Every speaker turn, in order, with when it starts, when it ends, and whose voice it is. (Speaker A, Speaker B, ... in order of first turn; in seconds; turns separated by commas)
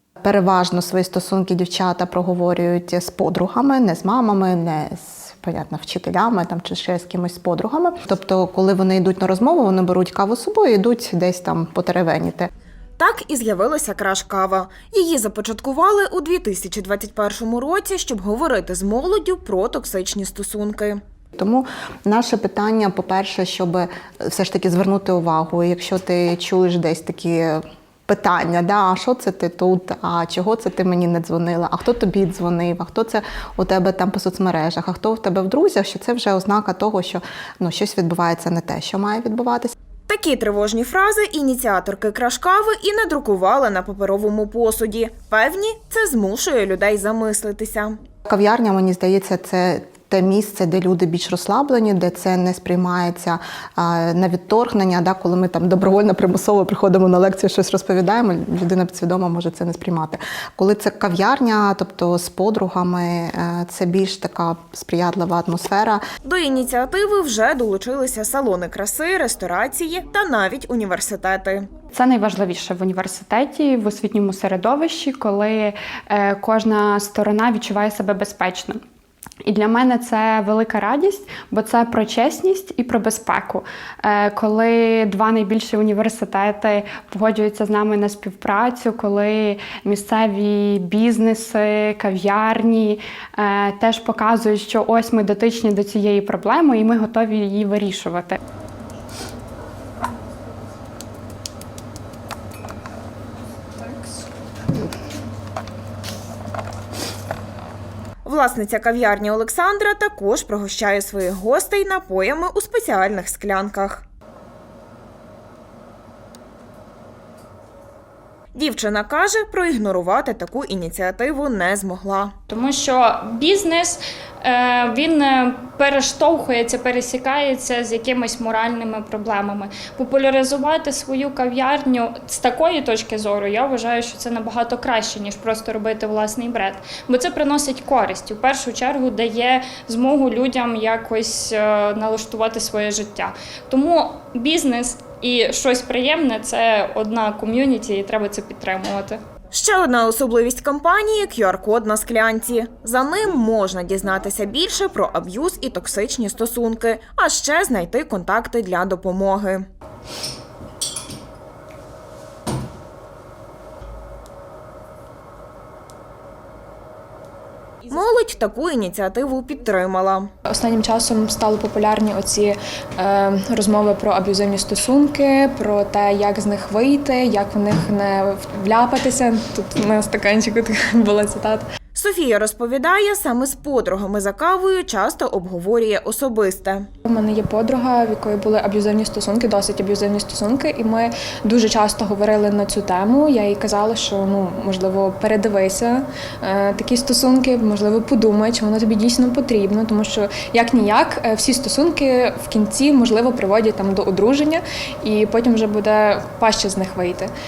Speaker A: 0.2-12.5, Speaker B: 13.0-21.0, Speaker A: 21.4-39.7, Speaker B: 40.1-48.0, Speaker A: 48.3-66.0, Speaker B: 66.2-71.7, Speaker C: 71.9-78.8, Speaker C: 79.4-98.4, Speaker B: 108.2-114.0, Speaker B: 118.5-122.3, Speaker D: 122.5-149.2, Speaker B: 149.5-159.7, Speaker B: 167.9-170.3, Speaker E: 170.5-181.6, Speaker B: 181.9-186.9, Speaker E: 187.1-207.3